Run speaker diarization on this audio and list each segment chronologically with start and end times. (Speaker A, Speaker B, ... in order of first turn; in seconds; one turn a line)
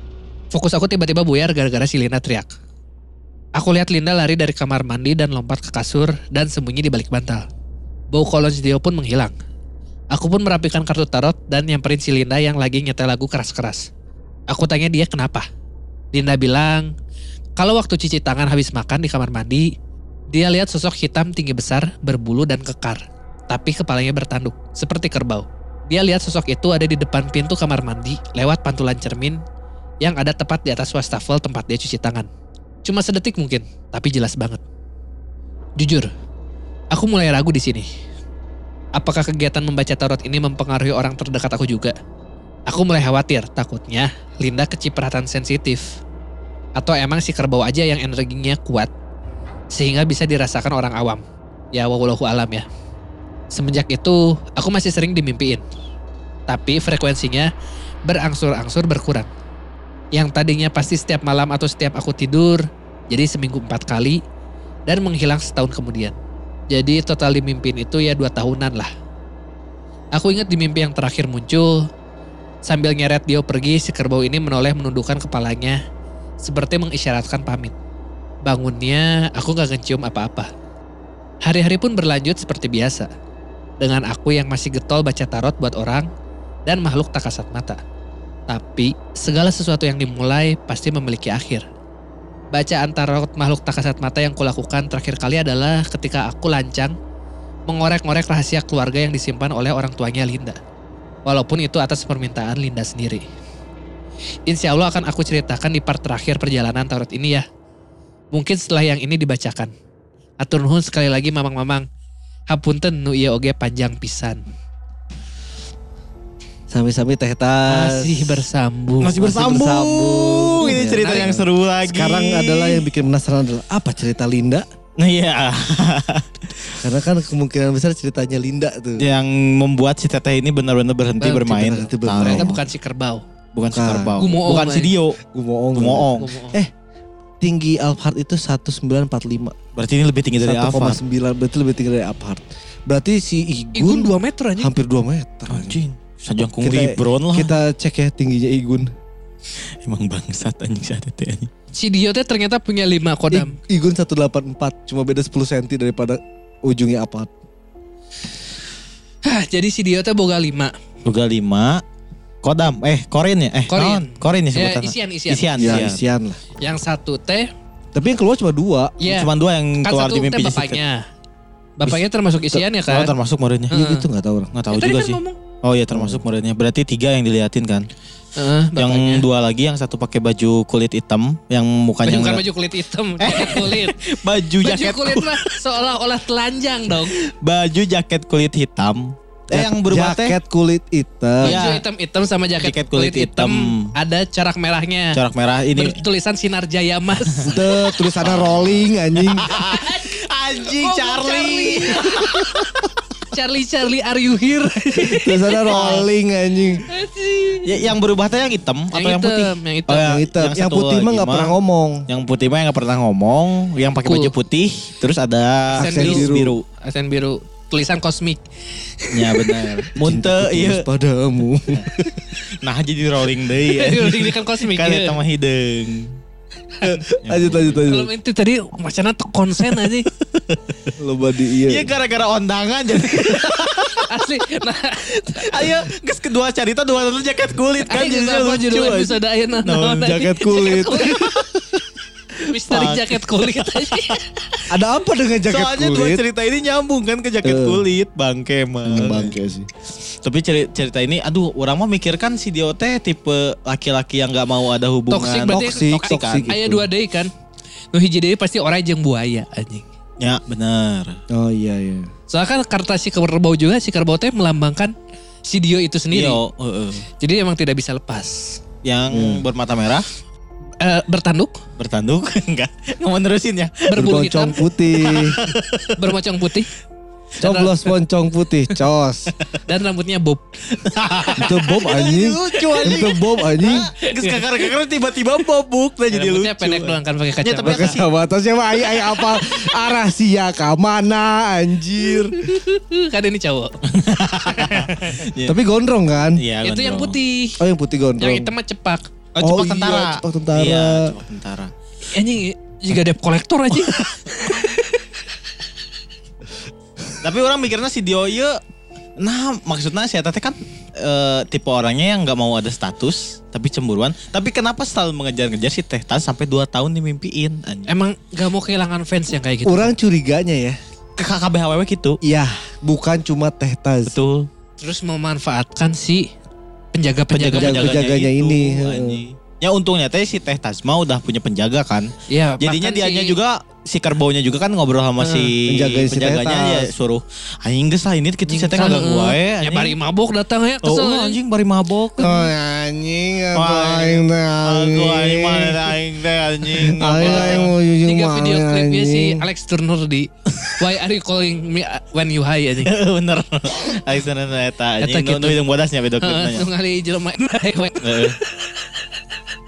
Speaker A: 0.5-2.5
Speaker A: 3.5-7.5
Speaker A: 8.1-9.3
Speaker A: 10.1-13.9
Speaker A: 14.5-15.4
Speaker A: 16.1-16.9
Speaker A: 17.6-19.7
Speaker A: 20.3-29.4
Speaker A: 30.0-32.3
Speaker A: 32.8-34.6
Speaker A: 35.8-36.1
Speaker A: 36.9-37.9
Speaker A: 39.0-41.9
Speaker A: 42.7-46.0
Speaker A: 46.8-48.9
Speaker A: 49.7-51.2
Speaker A: 51.7-52.6
Speaker A: 53.5-55.6
Speaker A: 56.5-57.5
Speaker A: 58.0-59.3
Speaker A: 60.1-64.2
Speaker A: 64.9-66.2
Speaker A: 66.7-68.9
Speaker A: 70.1-71.8
Speaker A: 72.7-75.8
Speaker A: 76.4-77.7
Speaker A: 78.4-80.5
Speaker A: 81.4-83.1
Speaker A: 83.8-86.1
Speaker A: 86.7-87.8
Speaker A: 88.5-91.6
Speaker A: 92.5-96.9
Speaker A: 97.7-100.6
Speaker A: 101.2-103.2
Speaker A: 104.5-107.4
Speaker A: 108.3-109.7
Speaker A: 110.4-111.8
Speaker A: 112.5-114.4
Speaker B: 116.7-118.5
Speaker A: 117.7-119.3
Speaker C: 119.0-122.9
Speaker B: 119.2-124.7
Speaker A: 120.6-121.3
Speaker C: 125.0-126.8
Speaker B: 126.8-129.1
Speaker C: 129.0-132.5
Speaker A: 131.2-131.5
Speaker B: 131.4-132.6
Speaker A: 132.2-133.2
Speaker C: 133.5-135.2
Speaker B: 133.7-134.2
Speaker A: 134.2-134.9
Speaker B: 135.3-136.7
Speaker C: 135.7-136.3
Speaker A: 136.2-136.6
Speaker B: 137.4-139.6
Speaker C: 139.8-141.0
Speaker B: 140.4-145.8
Speaker A: 143.7-144.7
Speaker C: 145.5-147.5
Speaker B: 146.6-148.9
Speaker C: 149.8-151.5
Speaker A: 151.7-153.6
Speaker B: 153.3-157.3
Speaker A: 159.2-160.7
Speaker C: 161.0-161.8
Speaker C: 162.4-166.0
Speaker A: 163.7-165.9
Speaker B: 165.6-166.4
Speaker A: 166.6-167.5
Speaker B: 167.9-169.0
Speaker A: 169.0-169.3
Speaker C: 169.1-170.8
Speaker A: 169.8-171.0
Speaker A: 171.8-173.1
Speaker C: 172.5-173.8
Speaker A: 173.7-174.0
Speaker B: 173.7-174.5
Speaker C: 174.5-177.9
Speaker A: 174.7-175.4
Speaker B: 175.9-176.2
Speaker A: 178.4-179.2
Speaker C: 178.8-182.4
Speaker A: 182.0-184.0
Speaker C: 183.2-185.5
Speaker A: 184.6-187.2
Speaker C: 187.1-190.4
Speaker B: 189.5-191.6
Speaker A: 191.4-195.2
Speaker C: 191.4-191.8
Speaker C: 192.6-193.9
Speaker C: 195.2-196.0
Speaker A: 195.7-197.6
Speaker C: 197.2-202.7
Speaker B: 197.4-199.5
Speaker A: 199.5-200.1
Speaker A: 200.7-202.4
Speaker B: 202.2-202.7
Speaker A: 203.3-206.0
Speaker B: 205.0-206.8
Speaker C: 205.7-206.1
Speaker A: 206.9-207.9
Speaker C: 207.6-211.5
Speaker A: 208.9-210.1
Speaker B: 209.9-212.1
Speaker C: 212.1-216.6
Speaker A: 214.0-214.3
Speaker B: 215.8-216.6
Speaker A: 215.8-218.4
Speaker A: 219.0-219.7
Speaker C: 219.1-220.8
Speaker B: 220.0-222.2
Speaker C: 222.6-226.1
Speaker A: 223.7-225.2
Speaker A: 226.8-227.1
Speaker B: 226.8-228.1
Speaker C: 227.2-227.9
Speaker A: 227.8-230.1
Speaker C: 229.7-230.6
Speaker B: 231.0-231.9
Speaker C: 231.6-234.1
Speaker A: 234.0-235.8
Speaker C: 235.3-240.7
Speaker A: 237.9-241.4
Speaker B: 240.0-241.4
Speaker A: 242.4-244.3
Speaker C: 242.7-244.1
Speaker B: 244.7-246.2
Speaker C: 245.5-249.3
Speaker B: 247.4-247.8
Speaker B: 248.8-249.7
Speaker C: 250.2-256.5
Speaker A: 255.1-257.3
Speaker B: 255.1-256.9
Speaker A: 257.9-259.8
Speaker C: 260.2-261.2
Speaker B: 261.3-262.1
Speaker A: 262.3-264.9
Speaker A: 265.4-266.4
Speaker C: 266.1-267.1
Speaker A: 267.2-268.6
Speaker C: 268.8-270.1
Speaker B: 269.1-269.4
Speaker A: 270.8-271.6
Speaker C: 271.8-274.1
Speaker A: 273.9-276.7
Speaker B: 273.9-275.4
Speaker C: 275.1-276.1
Speaker A: 277.4-277.7
Speaker B: 277.4-279.3
Speaker A: 279.6-281.5
Speaker C: 280.8-288.1
Speaker B: 281.4-283.9
Speaker A: 284.0-284.7
Speaker A: 286.1-288.0
Speaker B: 287.6-292.4
Speaker A: 292.0-293.8
Speaker C: 293.9-295.6
Speaker A: 294.5-295.2
Speaker B: 295.4-296.4
Speaker C: 296.4-297.2
Speaker A: 296.6-297.6
Speaker B: 297.6-298.5
Speaker A: 298.2-299.1
Speaker C: 299.3-301.7
Speaker B: 299.4-301.1
Speaker A: 302.1-305.1
Speaker C: 307.2-308.6
Speaker C: 309.2-317.9
Speaker A: 317.9-319.9
Speaker B: 319.6-320.8
Speaker C: 321.2-322.2
Speaker B: 322.2-324.2
Speaker C: 324.1-324.5
Speaker A: 324.8-326.3
Speaker A: 326.9-328.1
Speaker C: 327.3-340.0
Speaker B: 327.5-329.2
Speaker A: 332.3-333.3
Speaker A: 335.2-335.5
Speaker B: 335.6-336.9
Speaker A: 338.5-341.4
Speaker C: 340.8-342.5
Speaker B: 342.2-345.9
Speaker C: 343.5-347.7
Speaker B: 346.8-349.4
Speaker A: 347.2-352.9
Speaker C: 352.8-356.7
Speaker A: 355.0-355.6
Speaker A: 356.2-359.2
Speaker C: 357.9-358.4